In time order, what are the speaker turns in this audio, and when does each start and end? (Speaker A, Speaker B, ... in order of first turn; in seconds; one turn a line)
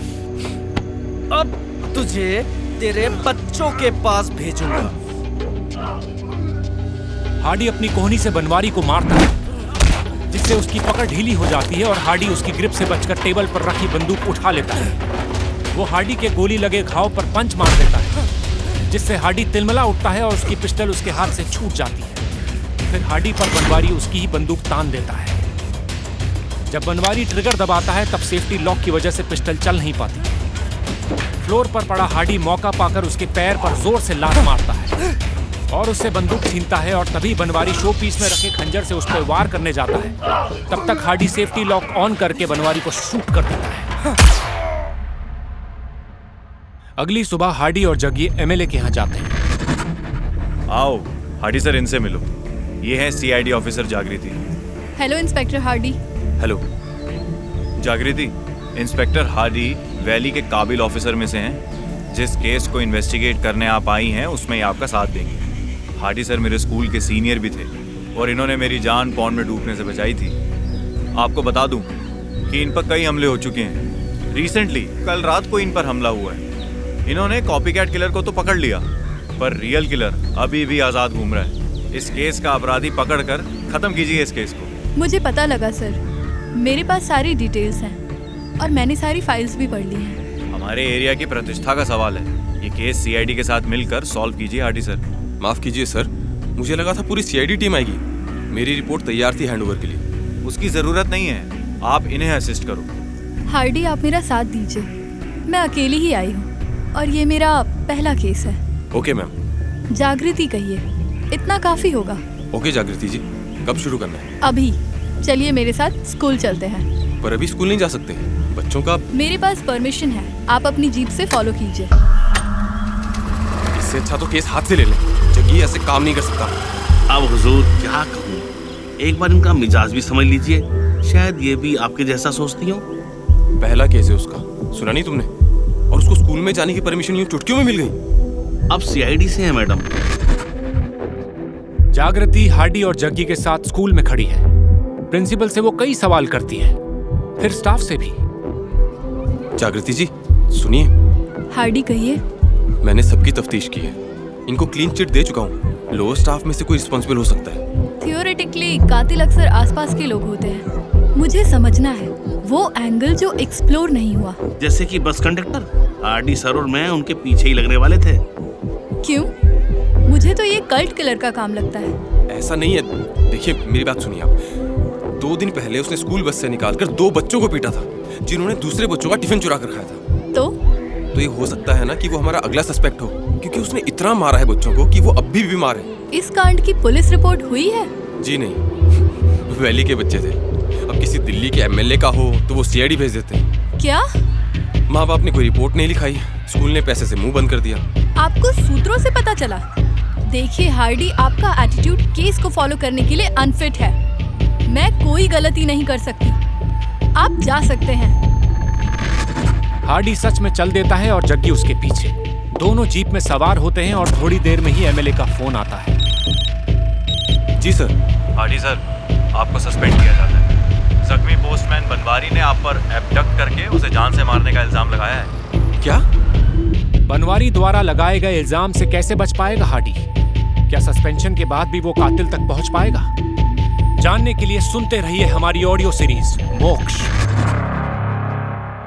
Speaker A: 1.3-5.0
Speaker B: 7.4-9.3
Speaker B: 10.3-15.0
Speaker B: 15.7-18.2
Speaker B: 18.9-22.2
Speaker B: 22.9-25.4
Speaker B: 26.7-30.2
Speaker B: 31.4-35.0
Speaker B: 35.7-40.2
Speaker B: 40.7-43.9
Speaker B: 47.0-49.4
Speaker C: 50.7-52.3
Speaker C: 52.8-54.4
Speaker D: 55.0-56.0
Speaker C: 57.8-61.6
Speaker C: 62.1-65.4
Speaker C: 66.0-70.4
Speaker C: 71.2-71.9
Speaker C: 72.5-76.4
Speaker C: 77.1-78.9
Speaker C: 79.4-84.7
Speaker D: 85.0-86.0
Speaker D: 86.6-88.0
Speaker D: 88.6-90.2
Speaker C: 90.5-95.0
Speaker E: 95.4-100.0
Speaker C: 100.4-102.9
Speaker D: 103.5-104.9
Speaker D: 105.5-108.6
Speaker E: 108.9-109.3
Speaker D: 109.9-112.2
Speaker E: 112.5-114.3
Speaker D: 114.4-116.9
Speaker E: 117.2-119.0
Speaker D: 119.1-122.0
Speaker E: 123.8-126.6
Speaker F: 127.1-128.5
Speaker F: 129.0-132.8
Speaker E: 133.6-135.3
Speaker E: 135.9-138.0
Speaker F: 138.7-140.0
Speaker B: 141.9-144.5
Speaker B: 145.1-146.8
Speaker B: 147.4-148.2
Speaker E: 149.6-150.9
Speaker D: 151.5-152.2
Speaker E: 152.8-154.0
Speaker E: 154.5-157.6
Speaker D: 158.0-164.4
Speaker F: 164.6-168.2
Speaker D: 169.0-169.3
Speaker D: 170.1-172.0
Speaker E: 172.3-174.4
Speaker E: 175.2-180.0
Speaker E: 181.2-185.9
Speaker D: 186.1-187.9
Speaker E: 188.2-193.5
Speaker D: 193.8-194.0
Speaker E: 194.9-197.8
Speaker D: 198.2-199.6
Speaker D: 200.3-204.0
Speaker D: 204.7-206.4
Speaker D: 207.2-208.2
Speaker B: 209.8-216.0
Speaker E: 217.6-217.9
Speaker C: 218.4-218.8
Speaker C: 219.3-220.5
Speaker C: 221.0-225.3
Speaker B: 227.1-230.1
Speaker B: 230.7-233.1
Speaker B: 234.0-237.1